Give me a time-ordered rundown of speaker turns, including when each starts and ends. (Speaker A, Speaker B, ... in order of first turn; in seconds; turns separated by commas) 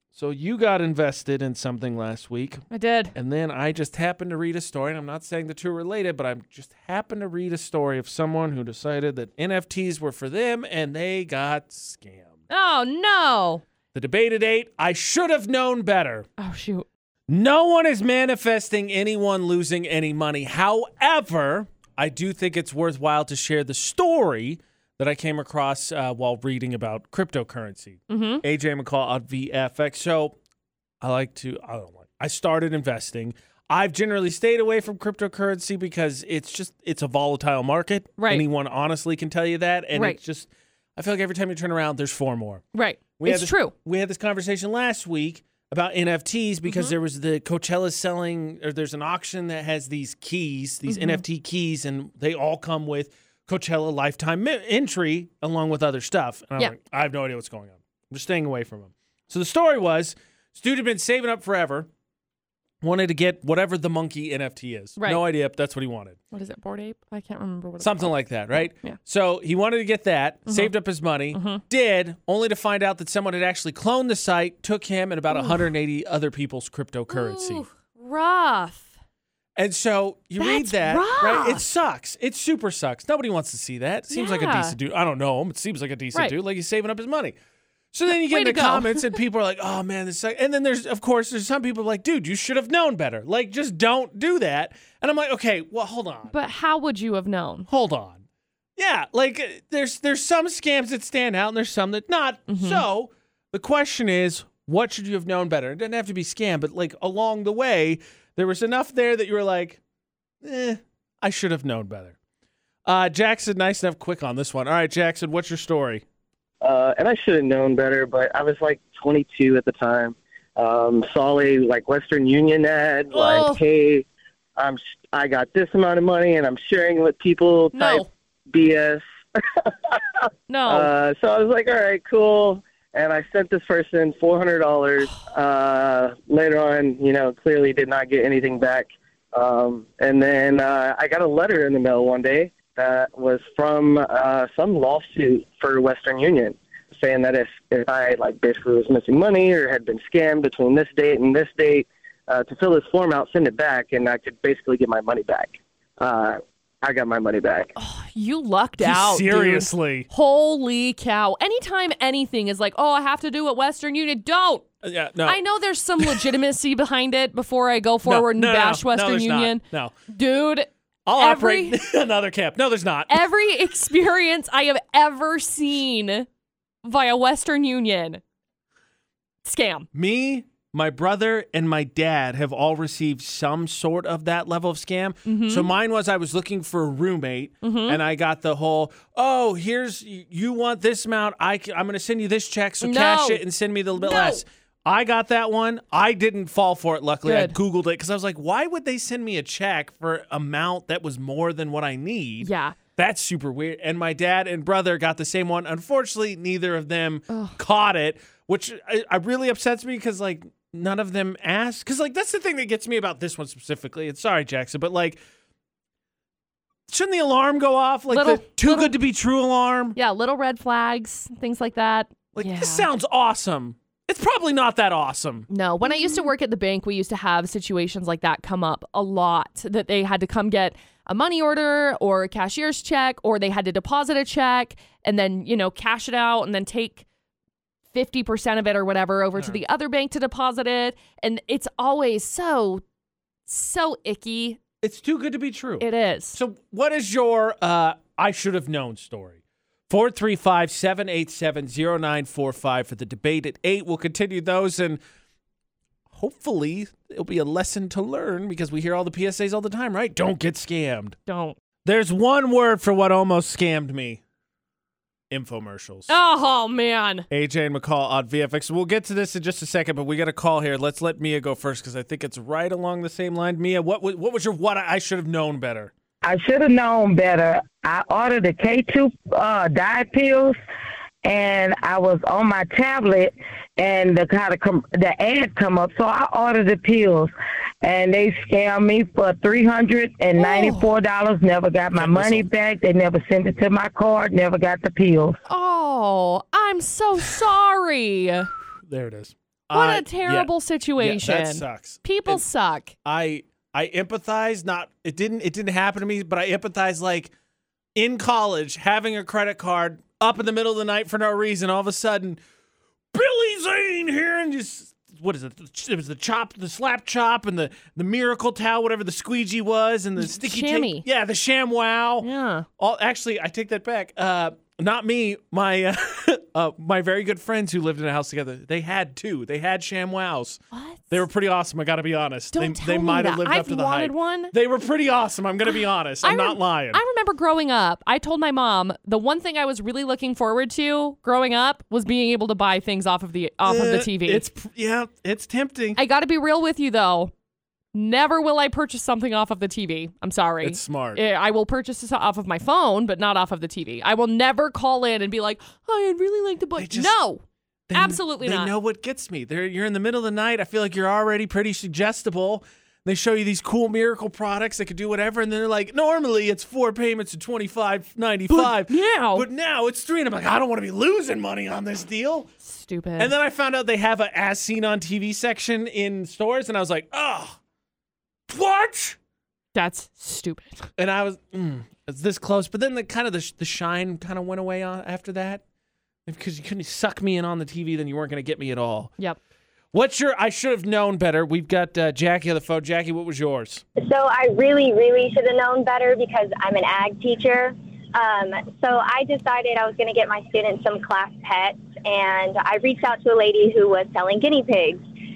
Speaker A: 0.1-2.6, Speaker B: 2.7-3.1, Speaker A: 3.1-12.3, Speaker B: 12.5-13.6, Speaker A: 13.9-16.3, Speaker B: 16.4-16.9, Speaker A: 17.3-30.4, Speaker B: 28.1-28.4, Speaker A: 31.0-42.6, Speaker B: 38.2-38.5, Speaker B: 42.7-43.7, Speaker A: 43.2-61.9, Speaker B: 46.7-46.9, Speaker B: 50.9-51.2, Speaker A: 62.8-66.2, Speaker B: 66.3-69.0, Speaker A: 67.8-77.6, Speaker B: 70.5-70.7, Speaker B: 71.3-71.6, Speaker B: 75.3-75.7, Speaker B: 77.1-78.9, Speaker A: 79.6-87.4, Speaker B: 80.4-81.7, Speaker B: 84.1-84.8, Speaker A: 87.9-96.3, Speaker B: 88.1-89.2, Speaker B: 96.3-97.7, Speaker A: 97.7-98.2, Speaker A: 98.8-109.8, Speaker B: 102.5-102.8, Speaker A: 110.4-112.2, Speaker A: 112.9-116.0, Speaker C: 116.6-157.7, Speaker B: 123.1-123.6, Speaker B: 127.7-128.1, Speaker B: 130.5-130.9, Speaker B: 157.8-164.7, Speaker A: 158.8-160.1, Speaker A: 164.8-165.4, Speaker B: 165.2-171.8, Speaker A: 166.0-166.3, Speaker A: 168.1-169.9, Speaker A: 171.1-173.3, Speaker B: 173.1-176.3, Speaker B: 176.8-178.2, Speaker B: 179.5-179.9, Speaker A: 179.9-215.2, Speaker B: 185.3-185.7, Speaker B: 187.6-188.0, Speaker B: 192.8-193.4, Speaker B: 194.0-194.4, Speaker B: 197.2-197.6, Speaker B: 202.4-202.8, Speaker B: 207.3-207.6, Speaker A: 216.9-220.0, Speaker B: 218.1-218.9, Speaker B: 220.0-222.9, Speaker A: 222.3-225.5, Speaker B: 225.5-237.1, Speaker B: 237.9-242.8, Speaker B: 243.5-244.6, Speaker A: 244.8-255.0, Speaker B: 245.8-246.4, Speaker A: 256.1-261.2, Speaker B: 261.3-261.6, Speaker A: 261.9-264.2, Speaker A: 265.3-266.1, Speaker B: 266.1-267.3, Speaker A: 267.3-275.9, Speaker D: 276.2-280.6, Speaker D: 281.2-295.4, Speaker B: 290.4-290.9, Speaker A: 291.9-292.4, Speaker B: 295.5-298.5, Speaker A: 298.9-302.4, Speaker B: 299.7-302.9, Speaker A: 303.0-307.3, Speaker A: 308.0-312.4, Speaker A: 313.1-322.3, Speaker B: 320.2-321.1, Speaker B: 322.2-322.7, Speaker A: 322.8-337.0, Speaker B: 330.7-331.2, Speaker B: 332.5-334.5, Speaker B: 336.2-344.4, Speaker A: 343.7-346.0, Speaker B: 346.0-347.3, Speaker B: 347.9-357.4, Speaker A: 350.6-351.2, Speaker A: 356.8-357.1, Speaker A: 357.9-372.5, Speaker B: 357.9-358.7, Speaker B: 368.5-369.5, Speaker B: 372.6-373.3, Speaker A: 373.2-377.6, Speaker A: 378.5-379.2, Speaker B: 379.8-380.9, Speaker A: 381.0-385.6, Speaker A: 386.3-389.1, Speaker A: 389.9-393.8, Speaker E: 394.0-405.0